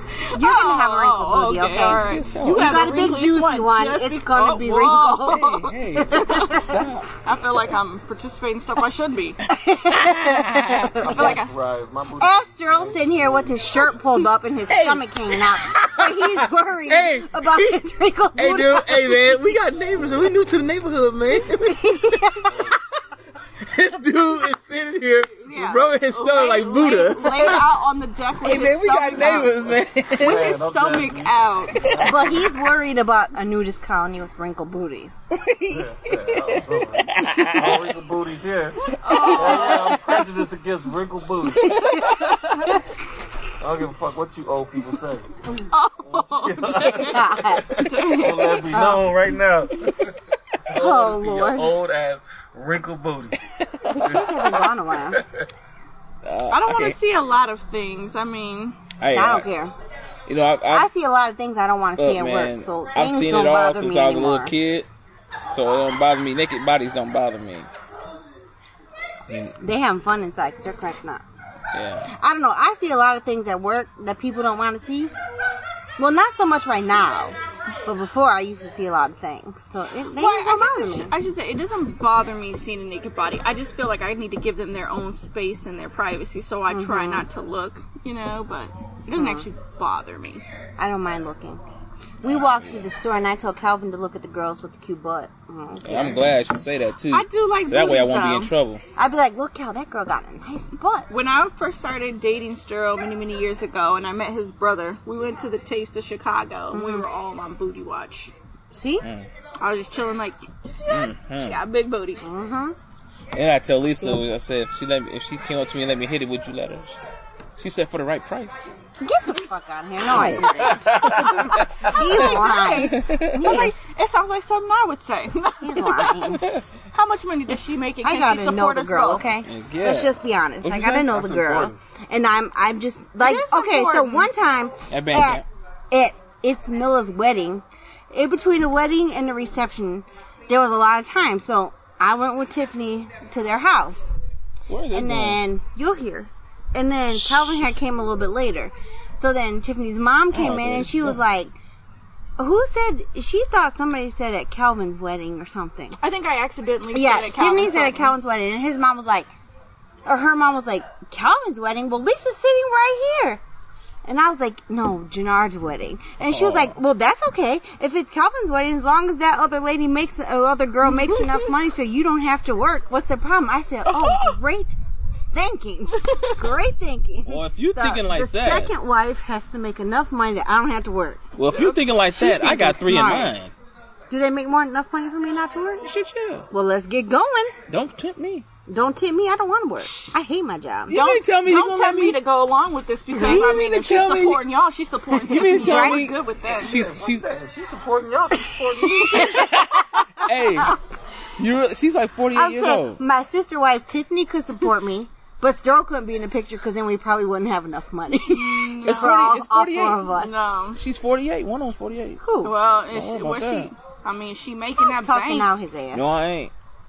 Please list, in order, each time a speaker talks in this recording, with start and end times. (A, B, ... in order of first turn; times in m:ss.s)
0:00.1-0:06.7 A
0:00.3-0:06.8 B
0:01.7-0:02.9 C
0:05.2-0:07.1 C
0:07.2-0:09.4 A
0:09.5-0:11.3 C
0:09.5-0:11.4 B
0:10.9-0:13.4 D
0:11.1-0:11.5 A
0:12.2-0:19.4 B
0:14.7-0:17.8 C
0:18.4-0:22.8 C
0:21.5-0:22.6 B
0:22.4-0:22.7 D
0:23.6-0:27.6 C
0:25.4-0:29.6 A
0:28.4-0:30.6 C
0:29.2-0:29.5 B
0:30.2-0:32.4 D
0:30.2-0:31.8 A
0:31.8-0:32.2 C
0:32.0-0:35.2 B
0:35.4-0:37.9 C
0:35.7-0:42.0 D
0:38.9-0:39.9 A
0:39.1-0:39.3 C
0:39.1-0:40.0 B
0:41.6-0:42.8 B
0:41.7-0:42.7 A
0:43.6-0:45.3 D
0:45.7-0:48.7 A
0:46.0-0:50.2 D
0:47.0-0:47.8 B
0:48.7-0:49.1 B
0:50.7-0:53.4 D
0:50.7-0:51.7 B
0:53.6-0:54.5 C
0:53.9-0:55.2 B
0:54.0-0:55.5 D
0:56.2-0:57.0 C
0:56.5-0:58.8 A
0:59.0-0:59.5 C
0:59.1-0:59.7 B
1:00.3-1:00.9 C
1:00.7-1:04.5 B
1:02.0-1:04.9 C
1:05.5-1:07.7 C
1:09.3-1:09.6 C
1:09.6-1:11.2 B
1:11.7-1:12.1 C
1:12.0-1:15.1 B
1:16.0-1:21.1 B
1:20.1-1:30.4 A
1:26.7-1:27.3 B
1:29.1-1:29.5 B
1:30.8-1:31.6 B
1:32.2-1:36.3 B
1:35.8-1:38.8 C
1:37.1-1:38.5 A
1:39.0-1:41.1 B
1:41.1-1:48.3 A
1:46.7-1:47.0 B
1:48.7-1:49.0 B
1:49.0-1:49.3 C
1:49.6-1:52.3 A
1:50.9-1:51.6 C
1:52.2-1:52.8 B
1:53.3-1:57.0 C
1:57.6-1:58.7 C
1:59.0-2:03.7 B
2:00.0-2:00.5 C
2:00.4-2:02.0 D
2:01.6-2:06.4 A
2:02.7-2:03.6 C
2:05.6-2:06.4 B
2:06.4-2:06.6 C
2:06.9-2:09.3 A
2:08.0-2:24.1 B
2:09.4-2:11.7 C
2:13.2-2:14.3 A
2:14.9-2:15.4 C
2:24.7-2:25.4 C
2:24.9-2:31.5 B
2:30.3-2:31.2 C
2:32.4-2:36.0 B
2:36.0-2:38.1 A
2:36.9-2:39.3 B
2:40.0-2:43.4 B
2:44.0-2:54.8 B
2:46.3-2:46.7 C
2:51.0-2:51.4 A
2:53.9-2:54.3 C
2:55.3-3:01.2 B
2:55.9-2:56.5 A
2:57.2-2:58.7 C
3:01.4-3:03.5 C
3:02.1-3:03.3 B
3:04.1-3:05.8 B
3:05.8-3:06.5 C
3:06.5-3:07.5 B
3:07.7-3:08.4 C
3:08.7-3:11.0 B
3:09.8-3:10.1 A
3:10.9-3:12.2 C
3:10.9-3:16.7 A
3:13.1-3:14.4 C
3:13.1-3:13.5 B
3:15.1-3:17.3 C
3:15.4-3:16.0 B
3:16.6-3:19.4 D
3:19.0-3:20.8 B
3:19.0-3:19.5 A
3:19.1-3:20.8 C
3:21.4-3:23.0 C
3:22.3-3:30.3 B
3:28.3-3:29.3 A
3:28.8-3:30.1 C
3:30.1-3:30.8 A
3:30.8-3:32.2 C
3:32.2-3:32.5 B
3:32.4-3:35.5 A
3:32.7-3:33.7 C
3:34.8-3:36.1 B
3:35.9-3:36.5 C